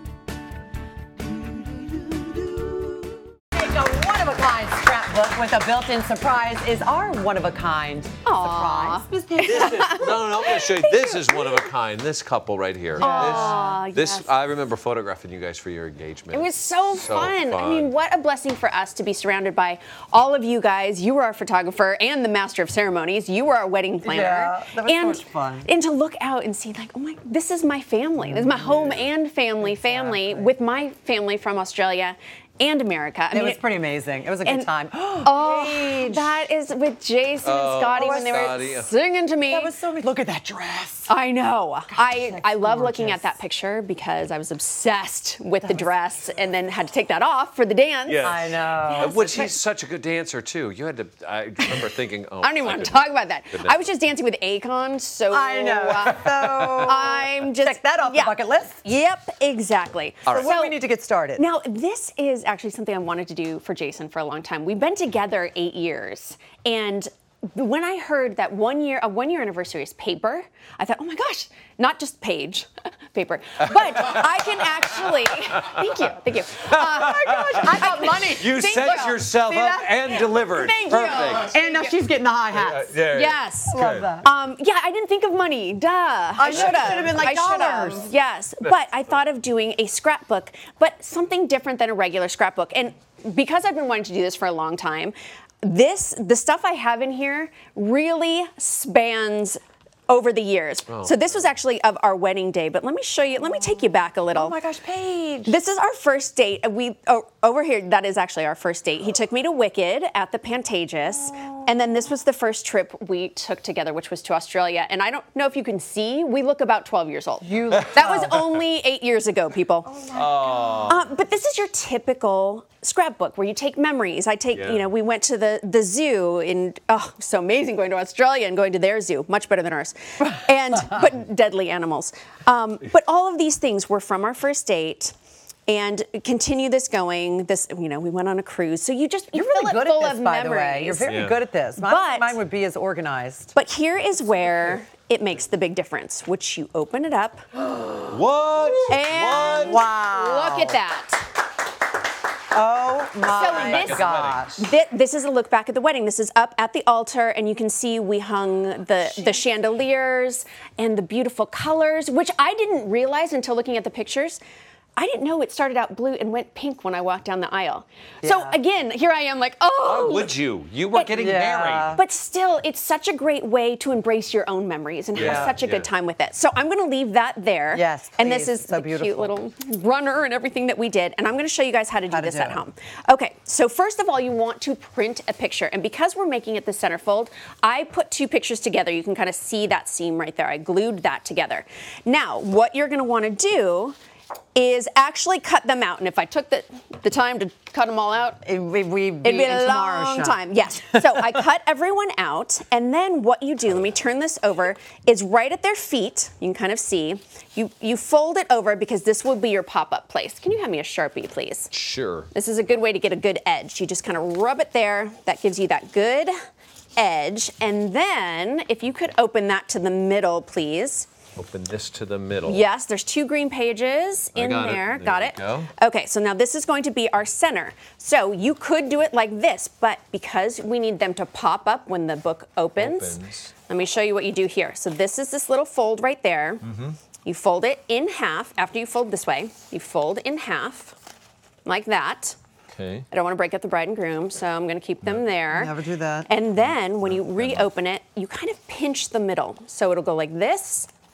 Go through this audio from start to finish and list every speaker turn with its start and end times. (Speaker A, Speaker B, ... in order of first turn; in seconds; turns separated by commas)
Speaker A: 3.5-9.8, Speaker B: 8.2-11.7, Speaker C: 9.4-17.9, Speaker A: 13.0-13.8, Speaker B: 13.0-14.3, Speaker B: 16.3-33.6, Speaker A: 24.0-25.7, Speaker A: 28.3-28.6, Speaker C: 28.6-29.1, Speaker A: 29.6-30.5, Speaker A: 33.3-36.4, Speaker B: 34.4-34.7, Speaker B: 35.2-39.7, Speaker C: 37.4-38.9, Speaker A: 37.9-38.3, Speaker A: 39.5-41.1, Speaker B: 41.1-48.4, Speaker A: 41.9-43.4, Speaker A: 45.6-45.9, Speaker C: 48.1-53.8, Speaker A: 48.2-49.5, Speaker B: 49.0-49.3, Speaker B: 52.4-60.7, Speaker A: 55.3-58.8, Speaker C: 56.1-56.9, Speaker A: 60.3-61.4, Speaker B: 61.4-79.3, Speaker C: 74.0-75.8, Speaker C: 76.7-81.5, Speaker A: 77.0-83.0, Speaker B: 80.1-81.9, Speaker C: 82.5-84.1, Speaker B: 83.1-104.6, Speaker A: 83.7-84.3, Speaker A: 86.4-88.1, Speaker C: 86.5-87.3, Speaker C: 100.9-101.3, Speaker A: 104.3-105.6, Speaker B: 105.5-120.0, Speaker A: 111.1-111.7, Speaker A: 117.4-118.3, Speaker C: 117.7-118.6, Speaker A: 119.9-120.9, Speaker C: 120.1-121.0, Speaker B: 120.8-135.1, Speaker C: 124.5-124.8, Speaker B: 135.7-141.1, Speaker A: 139.3-143.5, Speaker C: 141.0-141.3, Speaker B: 141.8-142.4, Speaker B: 143.5-147.9, Speaker C: 148.1-149.8, Speaker B: 148.9-151.2, Speaker A: 149.5-150.8, Speaker A: 152.5-154.7, Speaker B: 153.2-164.4, Speaker C: 153.3-154.5, Speaker B: 165.0-170.3, Speaker A: 168.2-168.6, Speaker C: 169.8-172.0, Speaker B: 170.9-171.2, Speaker A: 171.1-172.0, Speaker B: 171.9-193.9, Speaker C: 175.2-175.9, Speaker A: 175.2-175.6, Speaker A: 177.7-179.3, Speaker A: 182.1-182.6, Speaker B: 194.5-198.4, Speaker A: 198.4-200.4, Speaker B: 199.2-211.7, Speaker A: 200.9-201.3, Speaker C: 211.7-212.3, Speaker B: 212.3-216.3, Speaker B: 217.0-221.1, Speaker C: 221.3-222.6, Speaker B: 222.4-236.6, Speaker C: 224.3-225.7, Speaker C: 232.8-233.5, Speaker C: 236.6-237.0, Speaker B: 237.2-240.9, Speaker B: 241.6-242.3, Speaker C: 242.7-243.1, Speaker B: 243.1-245.7, Speaker A: 245.5-246.3, Speaker B: 246.3-250.9, Speaker C: 246.6-247.7